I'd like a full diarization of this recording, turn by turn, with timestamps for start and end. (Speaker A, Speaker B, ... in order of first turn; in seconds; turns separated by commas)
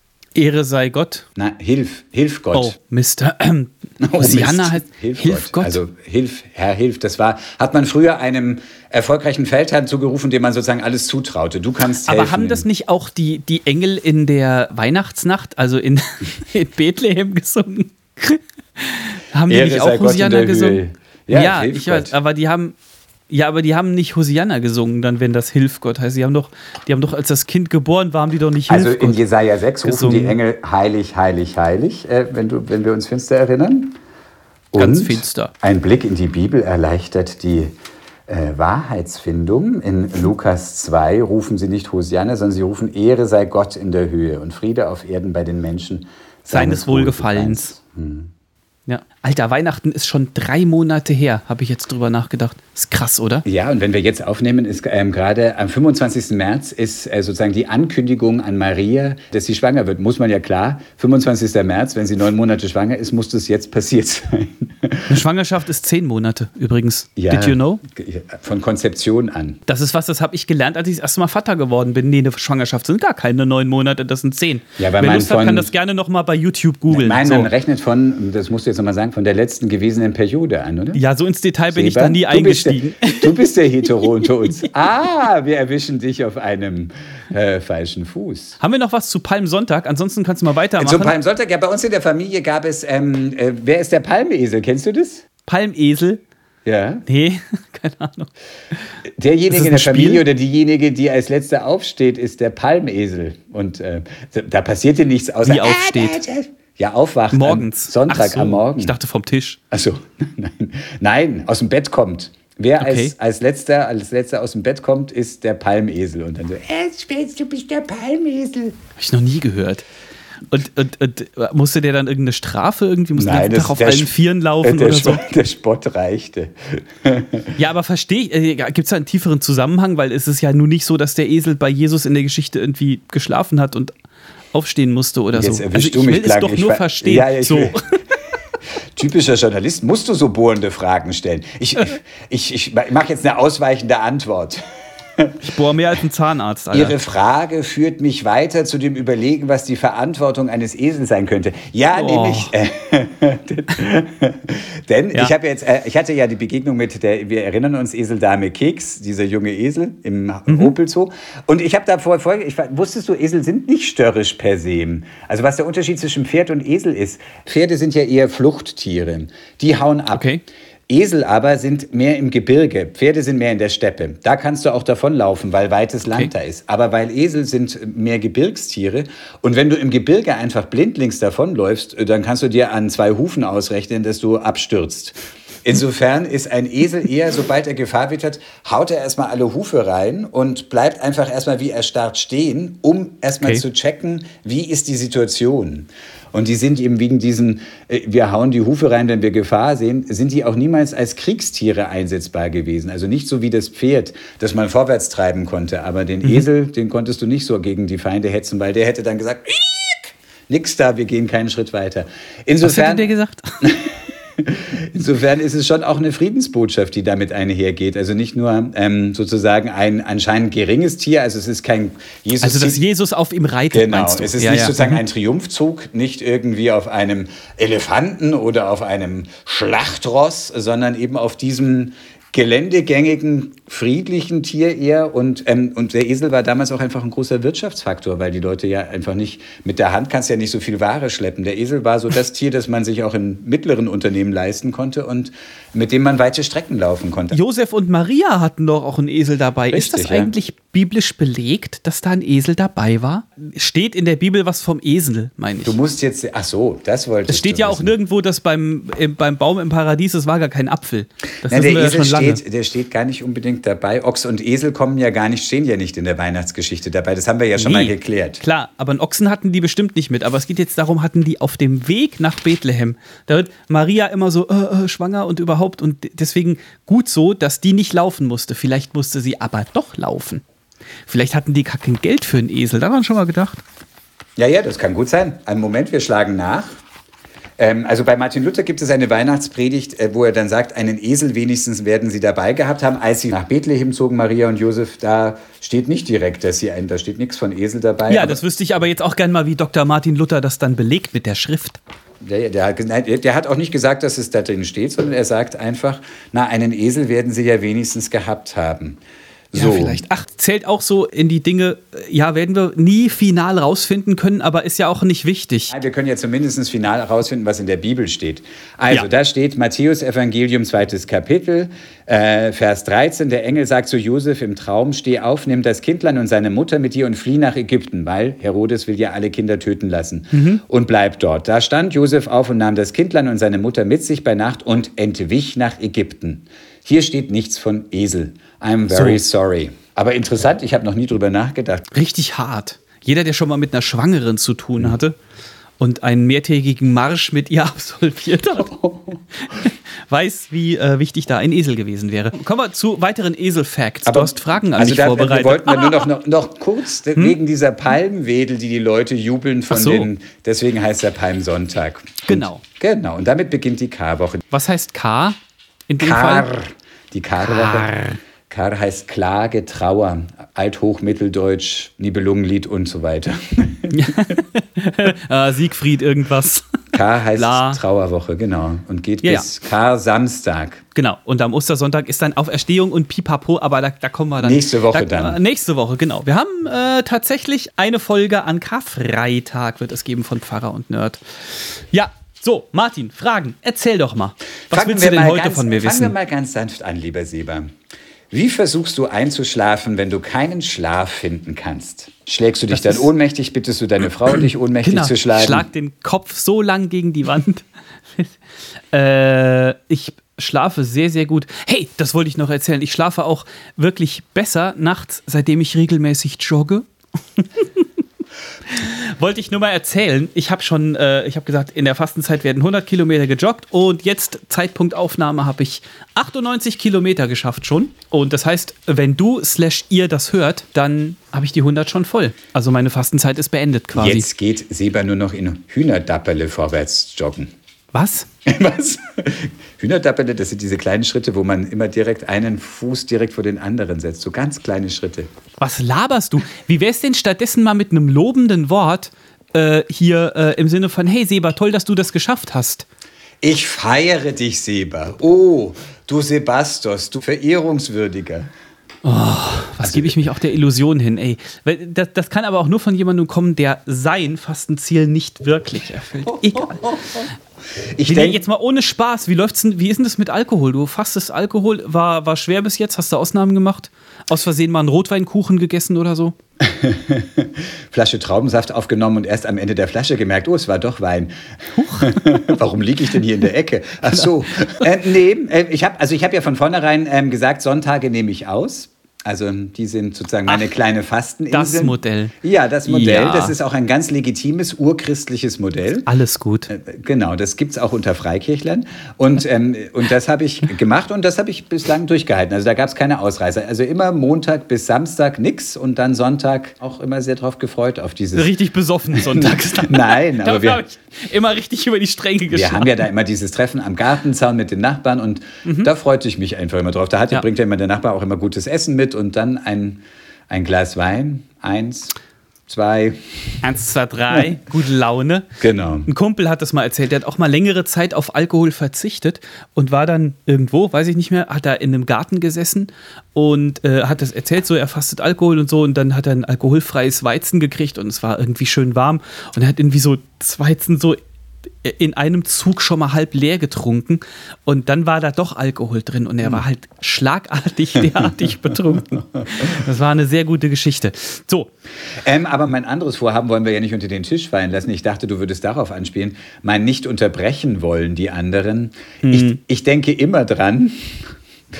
Speaker A: 0.3-1.2, Speaker B: 1.4-2.7, Speaker A: 2.5-5.8, Speaker B: 4.0-12.6, Speaker A: 12.1-22.7, Speaker B: 19.5-22.1, Speaker A: 23.3-29.2, Speaker B: 28.7-34.0, Speaker A: 29.8-30.4, Speaker B: 34.7-37.7, Speaker A: 34.8-35.5, Speaker B: 38.3-48.3, Speaker A: 46.5-47.8, Speaker A: 48.9-53.4, Speaker B: 53.4-65.1, Speaker A: 65.1-67.8, Speaker B: 67.2-69.6, Speaker A: 69.7-77.5, Speaker B: 74.8-75.7, Speaker B: 76.9-81.0, Speaker A: 80.9-83.3, Speaker B: 81.7-88.6, Speaker A: 84.1-84.7, Speaker A: 88.6-91.2, Speaker B: 90.8-95.2, Speaker A: 95.5-96.2, Speaker B: 96.6-97.0, Speaker A: 97.0-98.8, Speaker B: 99.2-108.9, Speaker A: 99.5-100.2, Speaker A: 105.5-106.2, Speaker A: 107.3-109.6, Speaker B: 109.7-118.8, Speaker A: 112.8-113.1, Speaker A: 119.0-119.8, Speaker A: 120.5-125.2, Speaker B: 123.2-124.1, Speaker B: 124.6-127.5, Speaker A: 127.6-133.9, Speaker A: 134.5-138.0, Speaker B: 135.3-137.8, Speaker B: 138.9-144.6, Speaker B: 145.2-145.5, Speaker A: 145.4-146.9, Speaker B: 146.7-170.3, Speaker A: 151.9-152.5, Speaker A: 170.1-170.4, Speaker B: 170.9-213.1, Speaker A: 212.6-213.7, Speaker B: 213.6-222.8, Speaker A: 222.4-225.0, Speaker B: 223.7-247.4, Speaker A: 247.3-255.8, Speaker B: 249.7-250.3, Speaker B: 255.6-257.9, Speaker A: 257.3-262.4, Speaker B: 261.5-268.4, Speaker A: 267.6-280.4, Speaker A: 281.1-283.6, Speaker B: 284.4-286.7, Speaker B: 287.6-298.4, Speaker A: 298.1-301.8, Speaker B: 302.2-309.0, Speaker B: 309.5-310.0, Speaker A: 309.5-315.7, Speaker B: 315.7-341.9, Speaker A: 330.3-330.6, Speaker A: 338.9-339.2, Speaker A: 341.9-345.1, Speaker A: 345.8-348.7, Speaker B: 348.7-349.2, Speaker A: 349.4-356.1, Speaker B: 354.1-364.4, Speaker A: 359.7-360.1, Speaker A: 362.3-362.6, Speaker A: 364.5-365.4, Speaker A: 365.9-366.5, Speaker B: 366.0-367.9, Speaker A: 367.4-368.2, Speaker B: 368.5-374.3, Speaker A: 373.9-376.6, Speaker B: 376.9-380.8, Speaker A: 377.3-377.8, Speaker A: 380.9-396.1, Speaker B: 384.4-385.4, Speaker B: 394.7-397.7, Speaker B: 398.3-405.7, Speaker A: 402.7-403.1, Speaker A: 404.8-408.3, Speaker A: 408.9-417.9, Speaker A: 418.7-434.2, Speaker B: 433.9-437.5, Speaker A: 437.9-438.3, Speaker B: 438.4-445.3, Speaker A: 445.6-452.9, Speaker B: 453.4-458.5, Speaker A: 459.0-466.9, Speaker B: 459.8-460.1, Speaker B: 466.5-467.3, Speaker B: 467.9-468.4, Speaker A: 468.1-476.4, Speaker B: 476.6-496.1, Speaker A: 481.8-482.2, Speaker A: 491.5-492.3, Speaker A: 492.9-493.6, Speaker A: 496.1-496.7, Speaker B: 496.7-508.5, Speaker A: 508.3-513.0, Speaker B: 509.1-510.8, Speaker B: 512.5-522.1, Speaker A: 515.6-515.9, Speaker B: 522.7-523.6, Speaker A: 523.6-525.5, Speaker B: 525.6-526.1, Speaker A: 526.1-541.2, Speaker A: 541.8-551.7, Speaker B: 549.4-549.7, Speaker B: 552.2-561.3, Speaker A: 559.2-559.5